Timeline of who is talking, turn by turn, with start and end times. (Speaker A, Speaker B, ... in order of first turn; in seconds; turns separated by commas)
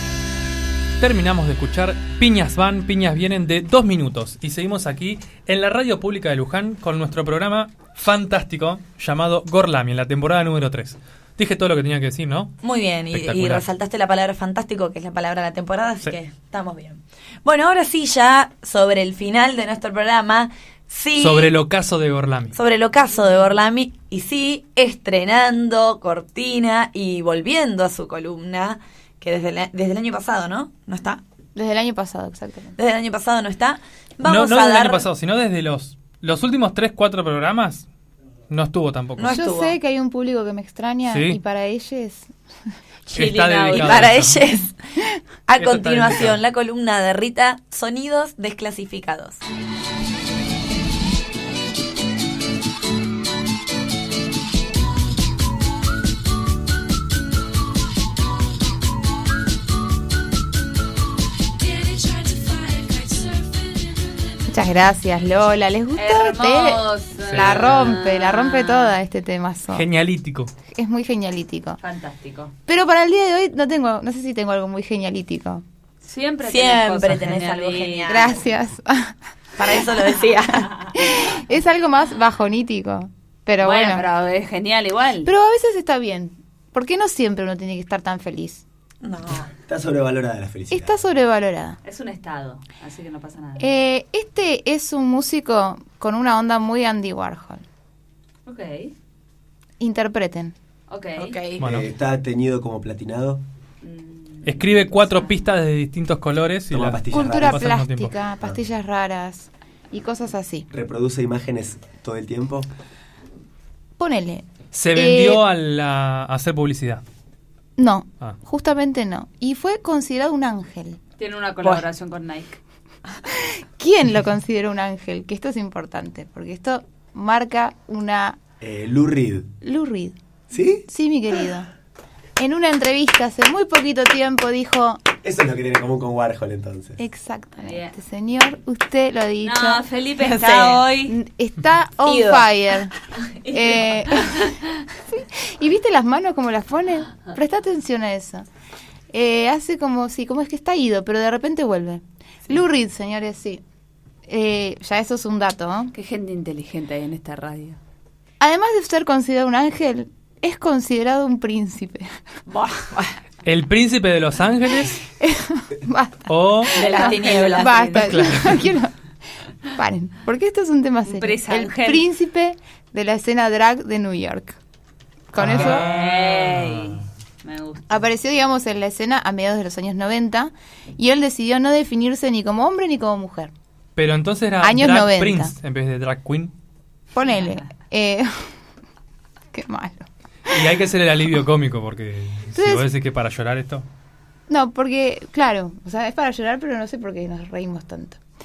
Speaker A: 1.0-12.6, Speaker B: 12.6-21.5, Speaker A: 13.1-13.6, Speaker A: 21.1-22.6, Speaker B: 22.5-31.2, Speaker C: 31.6-32.8, Speaker B: 32.8-35.0, Speaker A: 34.2-37.9, Speaker A: 38.5-39.3, Speaker B: 39.2-39.8, Speaker C: 39.3-42.3, Speaker A: 41.1-41.4, Speaker D: 43.1-44.1, Speaker A: 43.1-44.4, Speaker B: 43.7-44.8, Speaker B: 45.5-49.4, Speaker A: 45.6-46.4, Speaker C: 64.5-69.8, Speaker D: 65.9-69.0, Speaker A: 67.3-68.0, Speaker A: 69.7-70.5, Speaker C: 70.7-71.8, Speaker D: 71.8-72.5, Speaker C: 72.7-75.6, Speaker D: 76.0-78.4, Speaker B: 76.4-78.4, Speaker C: 78.1-79.1, Speaker B: 79.6-80.8, Speaker C: 80.6-84.0, Speaker D: 83.6-85.3, Speaker C: 85.2-88.6, Speaker B: 89.0-89.5, Speaker E: 89.7-91.0, Speaker C: 90.7-91.8, Speaker D: 91.8-93.7, Speaker C: 93.6-97.6, Speaker D: 98.5-98.9, Speaker C: 99.8-100.5, Speaker D: 100.9-101.3, Speaker B: 101.2-101.6, Speaker A: 101.6-101.8, Speaker E: 101.6-103.4, Speaker D: 103.8-105.3, Speaker A: 104.5-108.1, Speaker E: 106.7-107.7, Speaker C: 107.1-110.7, Speaker E: 110.7-112.7, Speaker C: 114.0-115.4, Speaker A: 114.7-117.0, Speaker C: 117.8-121.0, Speaker D: 121.2-122.6, Speaker C: 123.8-128.4, Speaker E: 128.6-129.5, Speaker C: 129.6-130.1, Speaker E: 130.5-130.8, Speaker C: 130.9-131.7, Speaker C: 132.4-135.0, Speaker E: 135.2-137.0, Speaker C: 137.0-139.8, Speaker D: 137.6-137.9, Speaker D: 139.4-141.1, Speaker B: 140.2-140.9, Speaker C: 141.1-142.9, Speaker B: 142.1-142.4, Speaker D: 143.2-144.5, Speaker C: 143.5-144.5, Speaker C: 145.1-148.5, Speaker C: 149.1-153.6, Speaker C: 154.3-155.9, Speaker D: 155.9-157.8, Speaker C: 158.4-162.1, Speaker D: 162.5-162.7, Speaker A: 163.4-165.0, Speaker C: 165.2-168.9, Speaker A: 166.3-166.7, Speaker B: 166.7-168.0, Speaker D: 166.7-168.3, Speaker A: 168.1-168.6, Speaker C: 169.7-174.6, Speaker D: 171.1-172.1, Speaker C: 175.3-175.9, Speaker A: 175.3-176.9, Speaker D: 175.4-177.9, Speaker C: 177.9-183.5, Speaker A: 183.9-186.5, Speaker C: 184.6-185.5, Speaker C: 187.1-188.3, Speaker D: 187.2-187.6, Speaker C: 189.5-190.6, Speaker A: 190.5-193.8, Speaker C: 192.6-192.9, Speaker C: 194.5-198.2